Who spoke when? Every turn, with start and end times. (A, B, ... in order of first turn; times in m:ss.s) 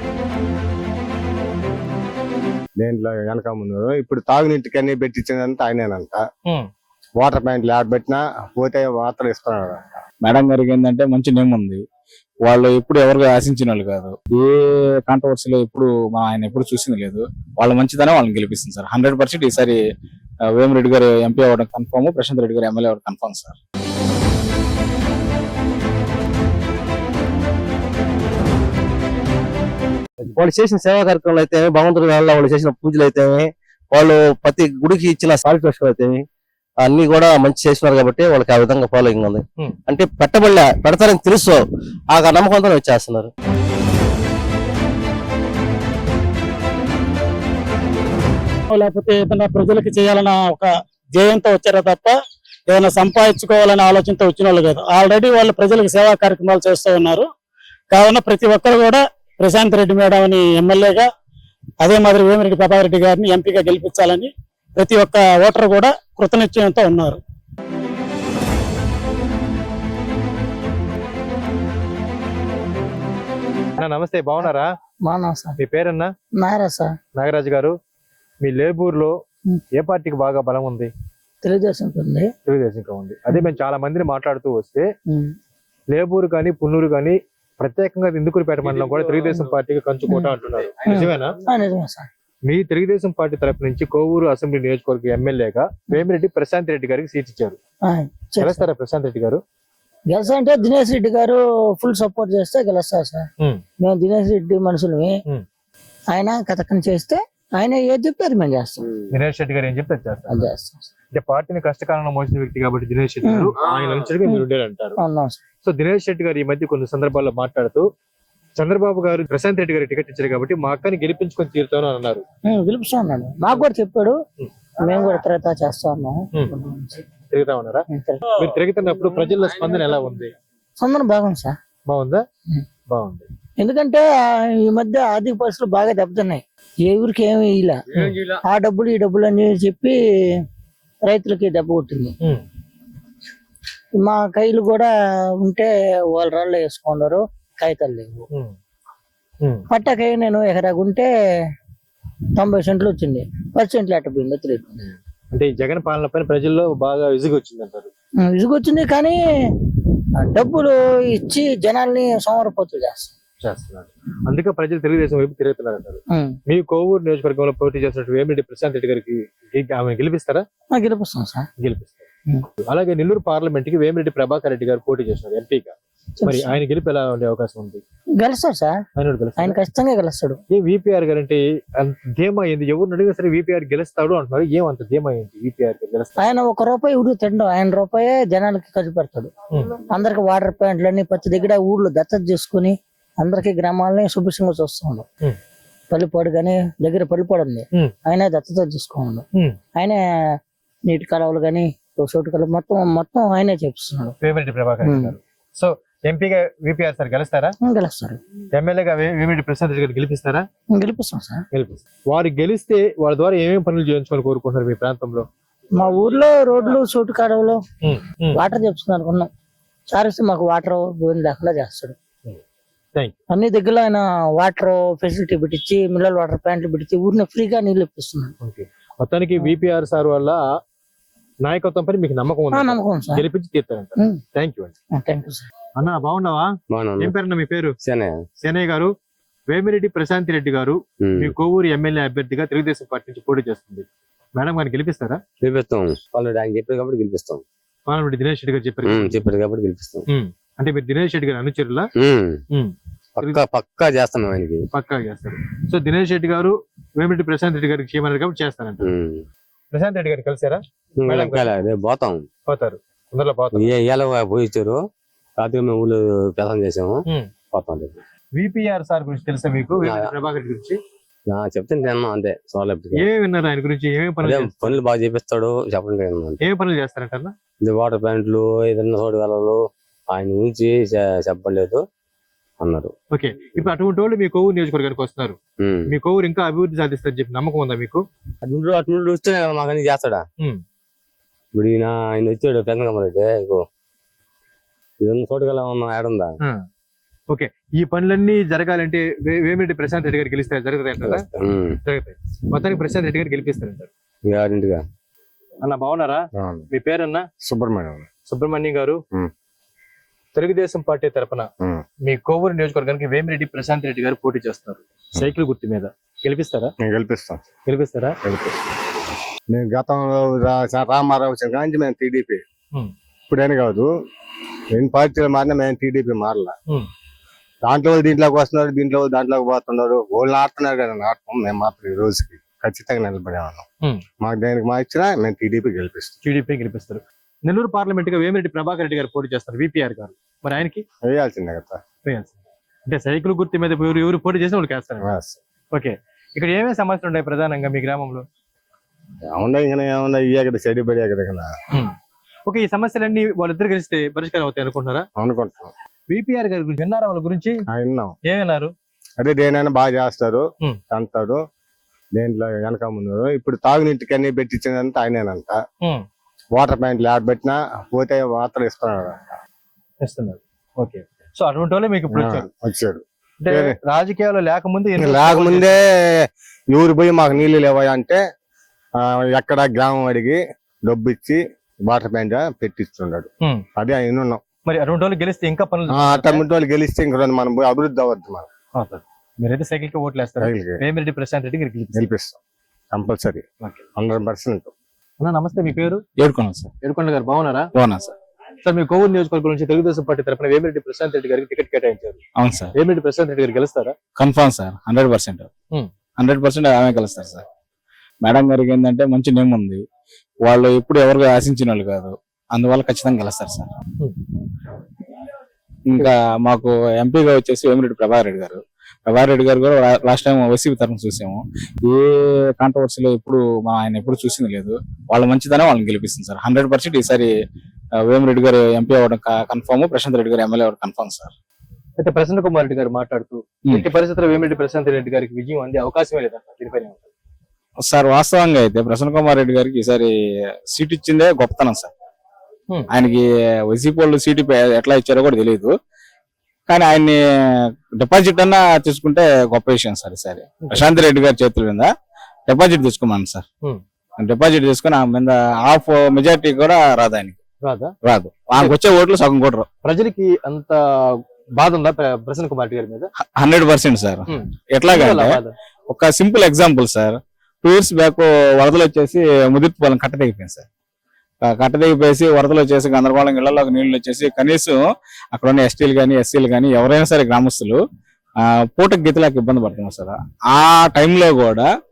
0:02.8-0:06.3 A
0:07.2-0:10.0 A
0:10.2-0:11.8 B
0:12.4-0:19.8 B
0:20.5-0:23.6 B
0:30.4-0:36.2 C
0:36.8-0:43.3 C
0:48.7-0:52.2 D
0:52.7-0:57.3 D
0:57.9-1:01.1 D
1:01.8-1:07.2 D
1:13.8-1:14.7 E
1:15.0-1:15.6 F
1:15.6-1:16.1 E
1:16.4-1:16.9 F
1:17.2-1:17.8 E
1:18.4-1:19.2 E
1:19.8-1:20.9 E
1:21.4-1:22.3 F
1:22.5-1:24.9 E
1:25.1-1:25.3 F
1:25.9-1:31.4 E
1:30.9-1:32.1 F
1:32.5-1:37.6 E
1:37.9-1:38.6 F
1:38.4-1:39.4 E
1:40.1-1:43.3 F
1:43.8-1:45.2 F
1:46.1-1:48.9 F
1:49.1-1:50.4 E
1:50.3-1:50.9 F
1:51.1-1:55.0 E
1:53.2-1:53.6 F
1:55.0-1:55.4 F
1:55.6-1:57.9 E
1:58.6-2:02.2 E
2:02.5-2:04.2 F
2:04.8-2:07.0 F
2:07.3-2:10.3 E
2:07.9-2:08.4 F
2:10.8-2:11.6 F
2:11.9-2:12.2 E
2:12.9-2:13.3 E
2:13.6-2:20.4 F
2:17.9-2:18.2 E
2:21.1-2:22.2 F
2:24.0-2:24.9 F
2:25.4-2:28.3 F
2:29.7-2:31.1 F
2:32.4-2:34.9 F
2:35.3-2:37.9 E
2:38.2-2:39.2 F
2:40.2-2:43.1 F
2:43.4-2:50.4 E
2:46.1-2:46.4 F
2:50.7-2:51.5 F
2:51.6-2:52.0 E
2:52.7-2:55.8 E
2:56.2-2:56.6 F
2:56.3-2:57.8 E
2:58.2-2:58.8 F
2:59.0-2:59.6 E
2:59.4-3:00.4 F
3:00.5-3:06.3 E
3:06.2-3:15.1 F
3:15.9-3:19.2 F
3:19.8-3:24.1 F
3:24.2-3:27.6 E
3:24.8-3:25.1 F
3:27.6-3:28.2 F
3:28.5-3:30.5 E
3:30.7-3:31.4 F
3:31.5-3:35.3 E
3:35.8-3:37.6 F
3:37.8-3:38.4 E
3:38.4-3:39.3 F
3:39.9-3:42.0 F
3:43.3-3:48.3 F
3:48.4-3:50.5 E
3:51.4-3:54.7 E
3:52.5-3:53.2 F
3:54.9-3:55.5 F
3:55.8-3:57.8 E
3:56.7-3:57.2 G
3:57.8-3:58.2 G
3:58.4-3:58.9 E
3:59.5-4:03.9 E
4:01.0-4:01.3 G
4:04.4-4:05.2 E
4:05.4-4:07.4 G
4:07.9-4:09.2 E
4:08.8-4:10.0 G
4:10.1-4:11.9 E
4:12.0-4:12.4 G
4:12.5-4:13.4 E
4:13.2-4:14.7 G
4:14.7-4:18.9 E
4:18.8-4:19.2 G
4:19.7-4:21.6 E
4:21.0-4:22.3 G
4:22.5-4:23.8 E
4:23.5-4:24.8 G
4:25.4-4:28.0 G
4:27.1-4:27.3 E
4:28.4-4:30.8 E
4:29.8-4:30.1 G
4:31.3-4:33.1 G
4:32.9-4:34.8 E
4:34.2-4:36.4 G
4:36.4-4:37.3 E
4:37.6-4:41.8 G
4:42.6-4:42.9 G
4:43.1-4:48.0 E
4:45.6-4:45.9 G
4:48.4-4:50.2 G
4:51.5-4:53.6 G
4:55.0-4:56.4 G
4:57.3-5:01.3 E
5:01.0-5:01.8 G
5:01.8-5:03.9 E
5:04.2-5:04.8 G
5:05.6-5:07.2 E
5:06.4-5:06.7 A
5:07.4-5:08.1 A
5:08.3-5:09.0 E
5:10.4-5:11.5 E
5:12.1-5:16.7 E
5:16.8-5:17.4 A
5:17.7-5:18.5 E
5:19.5-5:22.4 A
5:23.3-5:23.9 A
5:24.7-5:26.5 A
5:27.6-5:33.7 A
5:34.2-5:36.1 A
5:36.2-5:40.8 E
5:41.0-5:41.8 A
5:42.0-5:42.4 E
5:42.9-5:45.1 E
5:45.0-5:45.4 A
5:45.7-5:48.2 E
5:49.3-5:51.5 A
5:52.5-5:55.1 E
5:55.2-5:55.7 A
5:56.1-5:57.6 E
5:57.7-5:58.2 A
5:58.3-5:58.7 E
5:59.2-6:01.4 A
6:02.1-6:05.6 A
6:06.5-6:09.4 A
6:10.0-6:12.5 E
6:12.1-6:13.8 A
6:13.4-6:15.8 E
6:15.0-6:18.2 A
6:19.0-6:24.4 A
6:24.7-6:26.4 E
6:25.9-6:28.5 A
6:28.8-6:32.0 E
6:30.4-6:30.8 A
6:32.0-6:32.4 A
6:32.9-6:33.4 A
6:34.0-6:34.7 A
6:35.2-6:36.0 E
6:36.2-6:36.7 B
6:36.8-6:37.7 E
6:37.8-6:38.1 B
6:38.6-6:42.2 E
6:42.4-6:42.7 B
6:42.8-6:44.0 E
6:44.2-6:45.5 B
6:46.2-6:47.4 B
6:48.2-6:49.8 B
6:50.4-6:53.7 B
6:55.9-7:07.3 B
7:08.1-7:11.3 B
7:12.0-7:17.1 E
7:17.8-7:20.1 B
7:20.7-7:21.9 B
7:22.9-7:25.7 B
7:26.7-7:31.9 B
7:30.6-7:31.0 E
7:32.5-7:33.4 B
7:34.2-7:37.4 B
7:37.6-7:37.9 E
7:38.0-7:39.7 B
7:39.8-7:43.1 E
7:43.4-7:50.6 B
7:44.3-7:45.5 E
7:51.4-7:54.8 B
7:55.3-7:57.8 B
7:58.4-8:01.7 B